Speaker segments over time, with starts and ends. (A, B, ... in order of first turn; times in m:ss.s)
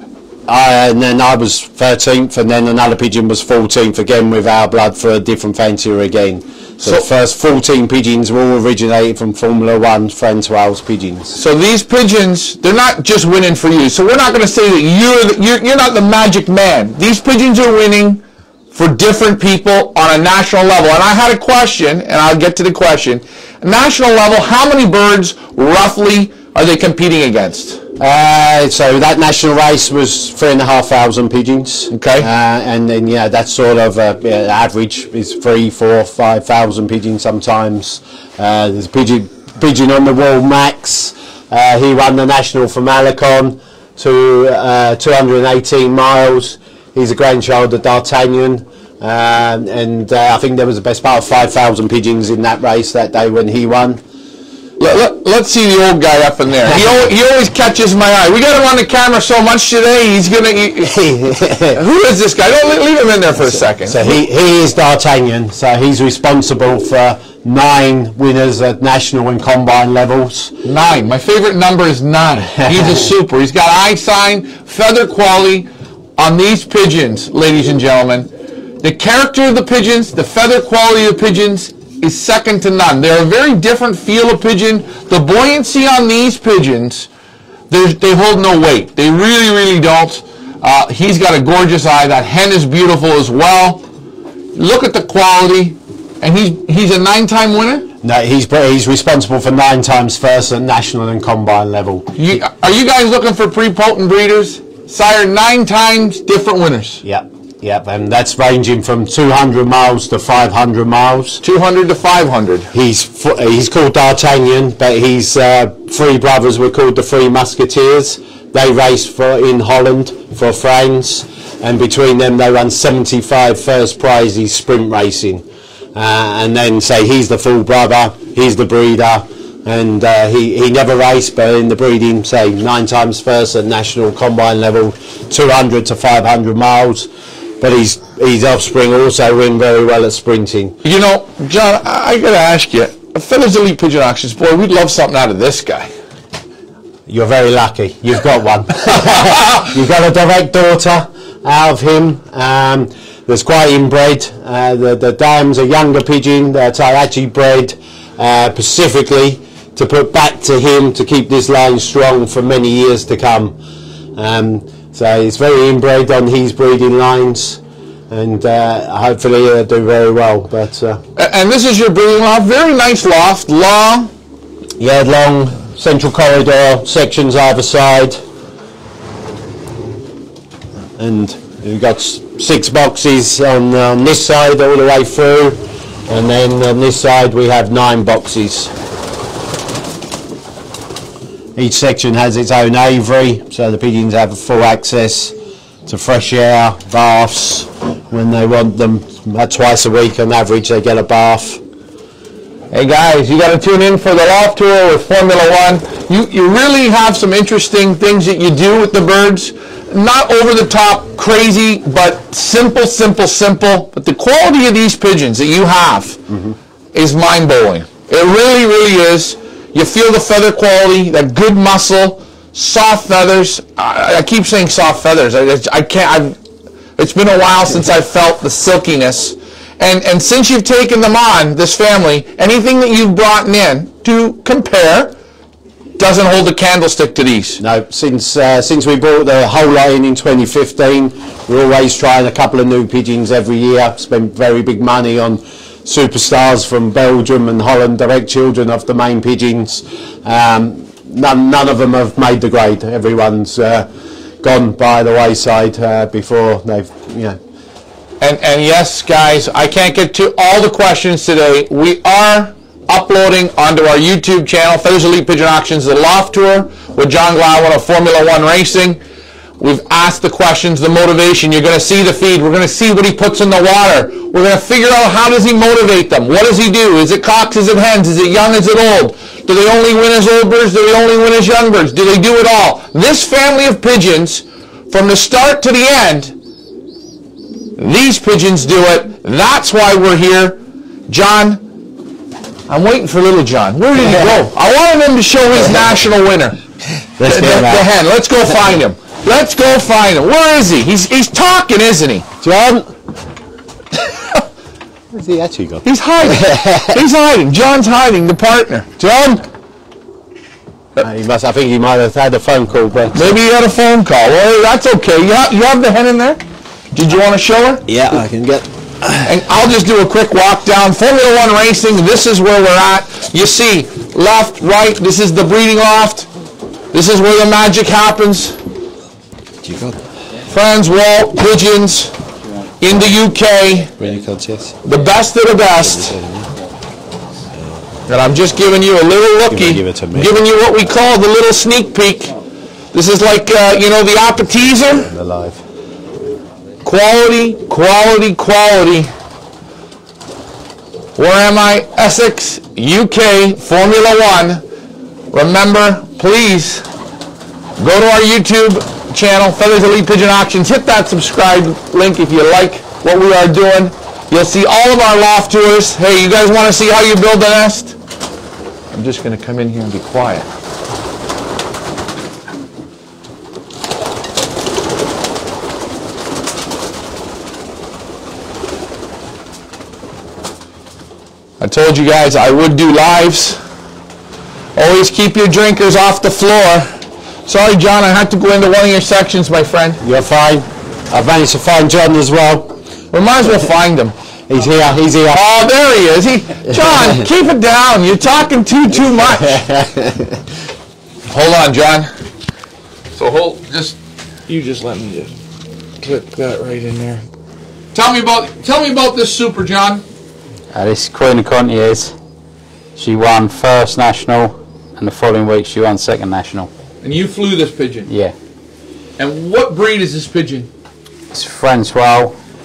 0:00.5-0:11.4 A
0:11.4-0:27.8 B
0:28.0-0:54.0 A
0:31.9-0:32.3 B
0:54.8-1:01.0 B
1:00.9-1:01.8 A
1:01.7-1:04.1 B
1:03.9-1:10.5 A
1:10.6-1:15.7 B
1:16.2-1:18.3 B
1:18.8-1:27.1 B
1:27.7-1:33.8 B
1:34.5-1:37.9 B
1:38.0-1:42.2 A
1:42.2-1:47.0 B
1:47.0-1:51.4 A
1:51.4-1:52.7 B
1:52.7-2:05.4 A
2:05.9-2:17.1 A
2:17.6-2:20.8 A
2:20.8-2:25.9 B
2:27.1-2:43.6 A
2:44.2-2:47.6 A
2:48.1-2:51.0 A
2:51.2-2:54.1 B
2:54.8-2:58.2 A
3:01.0-3:08.7 A
3:11.6-3:15.3 A
3:15.8-3:21.6 A
3:22.7-3:36.2 B
3:36.9-3:46.4 B
3:47.0-3:55.1 B
3:56.0-3:57.6 B
3:57.6-4:13.9 A
4:14.4-4:17.4 A
4:18.2-4:29.0 B
4:29.6-4:46.3 B
4:47.8-4:51.6 B
4:52.7-4:56.6 B
4:57.2-4:57.9 A
4:57.2-5:02.3 B
5:02.4-5:02.9 A
5:05.1-5:07.0 A
5:05.8-5:08.9 B
5:09.0-5:09.4 A
5:11.0-5:13.3 A
5:13.1-5:16.4 B
5:16.9-5:17.8 B
5:17.9-5:19.3 A
5:19.2-5:26.3 B
5:26.9-5:28.6 B
5:29.6-5:30.0 A
5:30.5-5:32.1 B
5:32.8-5:33.9 B
5:34.0-5:34.7 A
5:34.8-5:36.2 B
5:35.8-5:36.5 A
5:38.1-5:42.3 B
5:39.5-5:40.3 A
5:42.9-5:45.1 B
5:45.0-5:45.6 A
5:46.8-5:49.1 B
5:51.2-5:54.6 B
5:55.3-5:56.8 B
5:57.8-6:08.0 B
6:08.9-6:10.5 B
6:21.6-6:23.6 B
6:24.8-6:26.9 B
6:27.4-6:30.0 B
6:30.0-6:32.8 A
6:33.1-6:34.1 B
6:34.5-6:35.4 A
6:35.3-6:39.6 B
6:39.4-6:40.4 A
6:41.3-6:42.1 B
6:43.1-6:44.0 B
6:44.5-6:45.3 B
6:46.0-6:47.2 B
6:47.9-6:50.0 B
6:50.7-6:52.1 C
6:53.0-6:56.7 C
6:57.0-6:58.1 B
6:58.1-6:58.3 C
6:59.2-7:00.7 B
7:01.3-7:02.3 C